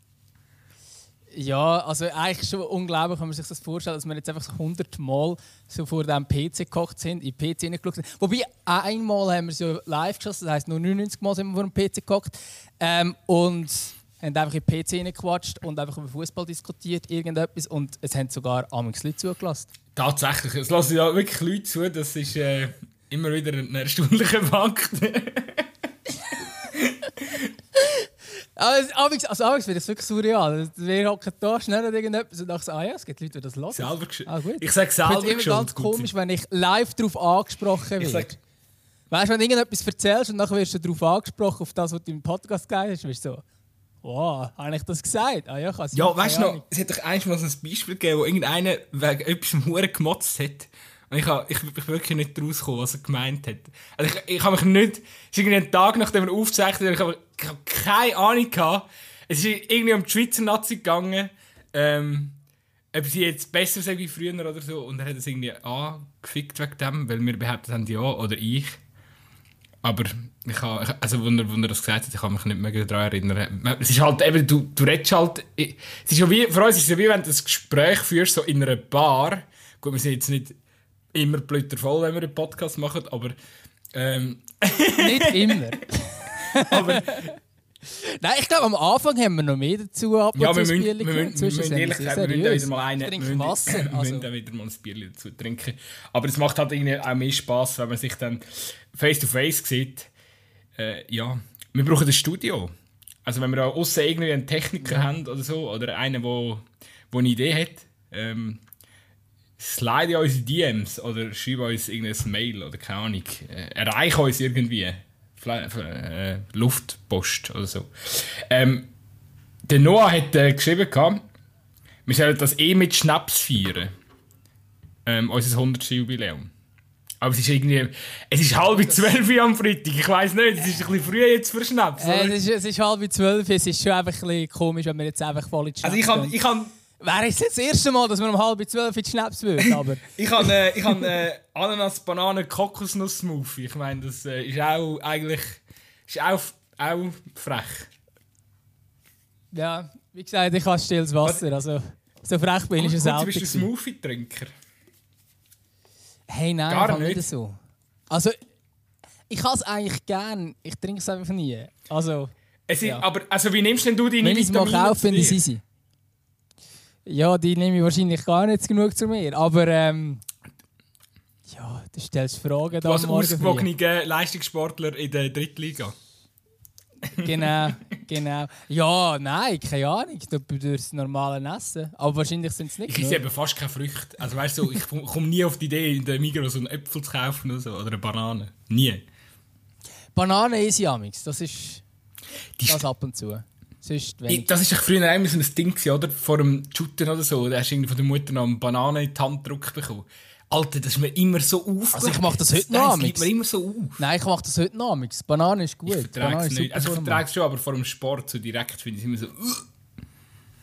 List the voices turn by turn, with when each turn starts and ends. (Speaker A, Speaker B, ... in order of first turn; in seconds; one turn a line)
Speaker A: 1.3-19.7
Speaker B: 19.9-25.7
Speaker B: 26.4-27.5
Speaker A: 27.9-38.4
Speaker B: 33.7-36.1
Speaker B: 38.0-38.3
Speaker A: 39.1-43.4
Speaker A: 44.0-46.6
Speaker B: 45.9-62.4
Speaker B: 62.9-68.8
Speaker B: 69.8-80.6
Speaker B: 81.1-83.3
Speaker B: 83.9-85.6
Speaker A: 84.9-87.3
Speaker B: 86.4-87.3
Speaker A: 87.9-94.3
Speaker B: 90.3-100.1
Speaker B: 100.8-102.7
Speaker B: 103.2-108.6
Speaker B: 109.6-118.9
Speaker B: 119.7-121.2
Speaker B: 122.0-123.9
Speaker B: 125.0-126.5
Speaker B: 127.2-132.3
Speaker A: 132.0-136.3
Speaker B: 135.8-136.7
Speaker A: 137.0-141.0
Speaker B: 140.1-147.9
Speaker A: 149.5-153.7
Speaker B: 152.8-154.5
Speaker A: 156.3-157.6
Speaker B: 156.7-157.2
Speaker A: 158.1-158.3
Speaker A: 159.3-163.0
Speaker B: 162.7-165.4
Speaker A: 164.2-165.6
Speaker A: 167.1-170.2
Speaker A: 171.5-173.7
Speaker B: 172.8-175.9
Speaker B: 177.1-177.7
Speaker A: 177.2-183.2
Speaker B: 182.9-189.0
Speaker A: 190.1-191.8
Speaker B: 192.6-192.8
Speaker A: 192.6-194.5
Speaker B: 194.3-204.0
Speaker A: 201.9-203.3
Speaker A: 204.0-207.2
Speaker B: 205.8-209.7